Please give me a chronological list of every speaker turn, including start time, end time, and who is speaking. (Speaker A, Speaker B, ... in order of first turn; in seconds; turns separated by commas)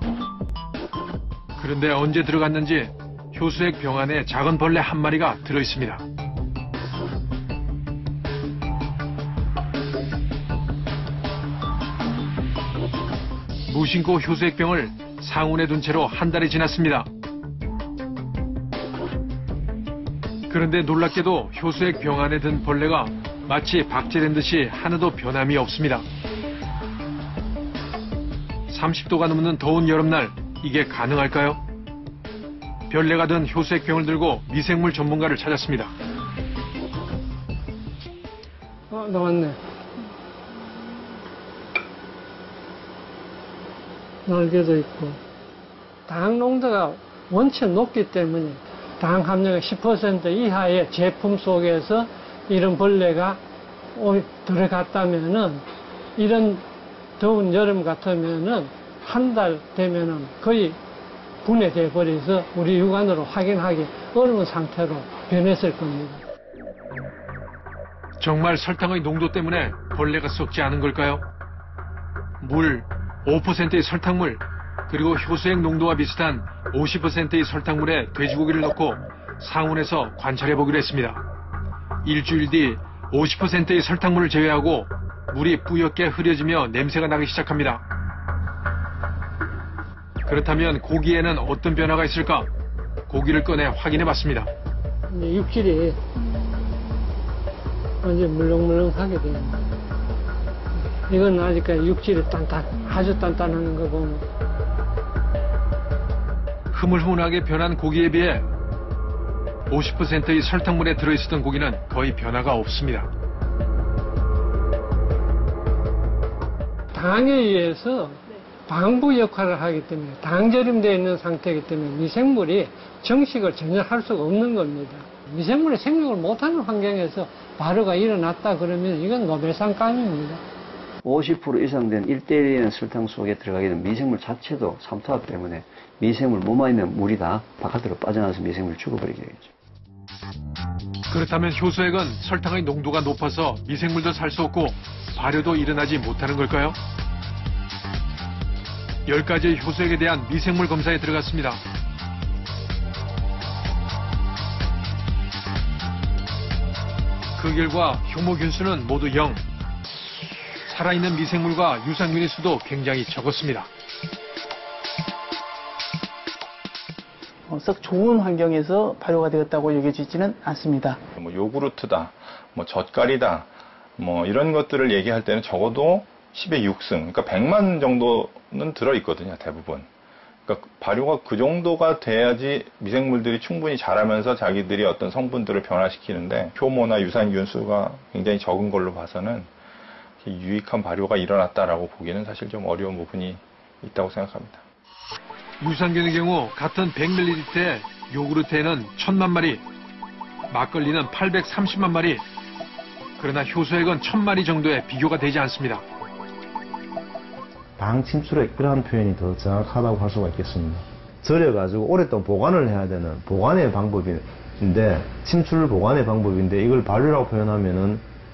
Speaker A: 1.6-6.0, Speaker A: 13.7-17.1, Speaker A: 20.5-26.1, Speaker A: 28.7-31.6, Speaker A: 32.9-35.9, Speaker B: 38.9-39.6, Speaker B: 44.3-45.2, Speaker B: 46.1-53.4, Speaker B: 54.0-55.6, Speaker B: 56.2-56.6, Speaker B: 57.2-60.8, Speaker B: 61.4-66.2, Speaker A: 68.2-71.2, Speaker A: 72.4-81.2, Speaker A: 82.0-87.8, Speaker A: 90.3-92.5, Speaker A: 93.1-94.5, Speaker B: 95.1-96.0, Speaker B: 98.0-99.7, Speaker B: 100.9-104.2, Speaker A: 106.7-108.5, Speaker A: 109.7-113.1, Speaker B: 116.9-130.4, Speaker C: 131.0-139.5, Speaker A: 141.1-146.8, Speaker A: 149.1-151.6, Speaker A: 157.4-159.4, Speaker A: 160.7-163.7, Speaker D: 167.5-171.0, Speaker E: 171.2-179.9, Speaker E: 180.5-189.5, Speaker E: 190.2-194.6, Speaker A: 195.6-199.6, Speaker A: 200.5-202.2, Speaker A: 203.2-205.8, Speaker F: 207.8-218.1